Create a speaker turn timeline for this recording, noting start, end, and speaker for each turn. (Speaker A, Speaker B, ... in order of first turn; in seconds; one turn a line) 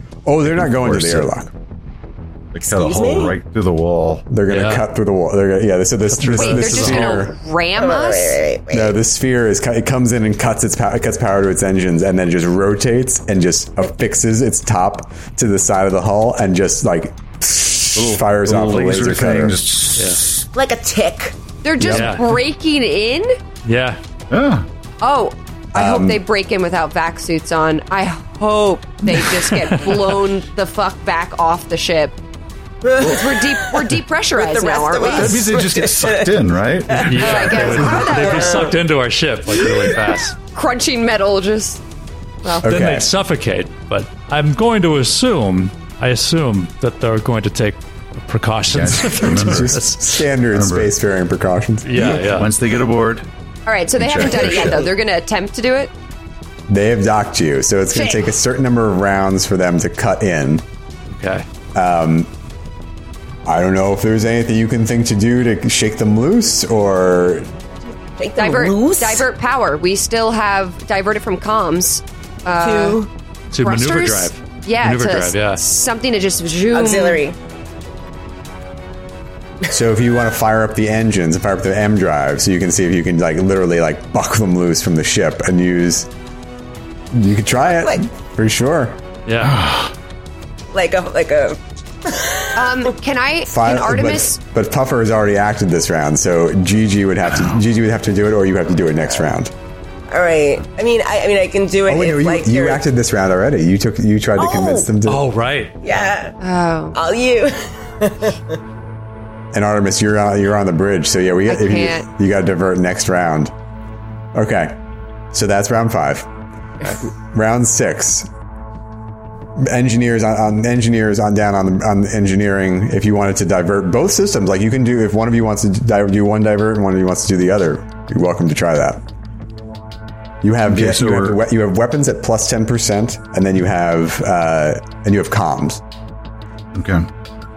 Speaker A: 0.3-1.5
Speaker B: 0.5-1.3
Speaker B: 2.5-4.3
Speaker C: 2.6-3.4
Speaker A: 4.3-7.3
Speaker D: 4.5-4.8
Speaker D: 6.1-7.3
Speaker E: 6.3-8.4
Speaker C: 7.8-8.9
Speaker A: 8.7-19.6
Speaker B: 18.0-20.3
Speaker D: 20.0-20.2
Speaker C: 20.5-21.4
Speaker E: 21.6-23.4
Speaker A: 21.8-22.1
Speaker D: 21.9-22.3
Speaker D: 23.6-24.0
Speaker B: 24.3-24.7
Speaker E: 25.0-32.1
Speaker A: 25.7-26.2
Speaker D: 29.6-30.1
Speaker C: 32.8-33.7
Speaker E: 33.0-35.5
Speaker C: 34.3-38.7
Speaker B: 35.1-37.7
Speaker D: 37.0-40.4
Speaker E: 37.2-38.7
Speaker E: 40.5-41.8
Speaker A: 42.6-43.1
Speaker D: 42.6-50.0
Speaker B: 48.7-49.8
Speaker A: 49.4-52.1
Speaker B: 50.5-50.9
Speaker D: 51.9-52.5
Speaker B: 52.0-53.3
Speaker E: 53.7-55.9
Speaker B: 54.0-54.9
Speaker A: 56.7-60.6
Speaker E: 57.9-58.2
Speaker D: 61.1-61.5
Speaker A: 61.7-62.3
Speaker A: 63.5-67.5
Speaker C: 68.2-69.2
Speaker E: 68.4-73.1
Speaker C: 72.6-73.1
Speaker D: 73.5-75.6
Speaker E: 73.6-77.2
Speaker C: 76.7-77.4
Speaker A: 79.7-86.1
Speaker A: 87.1-89.0
Speaker C: 87.7-88.0
Speaker D: 89.3-89.6
Speaker B: 89.4-89.9
Speaker C: 90.7-92.9
Speaker E: 92.6-94.4
Speaker A: 93.5-99.5
Speaker C: 100.1-102.8
Speaker A: 101.9-105.3
Speaker C: 104.4-104.9
Speaker D: 105.1-105.8
Speaker C: 105.8-106.4
Speaker E: 106.4-107.0
Speaker C: 106.9-108.6
Speaker A: 109.5-113.5
Speaker E: 111.5-112.1
Speaker A: 114.3-114.8
Speaker A: 115.3-116.3
Speaker A: 116.9-118.3
Speaker A: 119.6-129.0
Speaker A: 130.4-135.8
Speaker B: 130.7-131.4
Speaker B: 136.7-137.1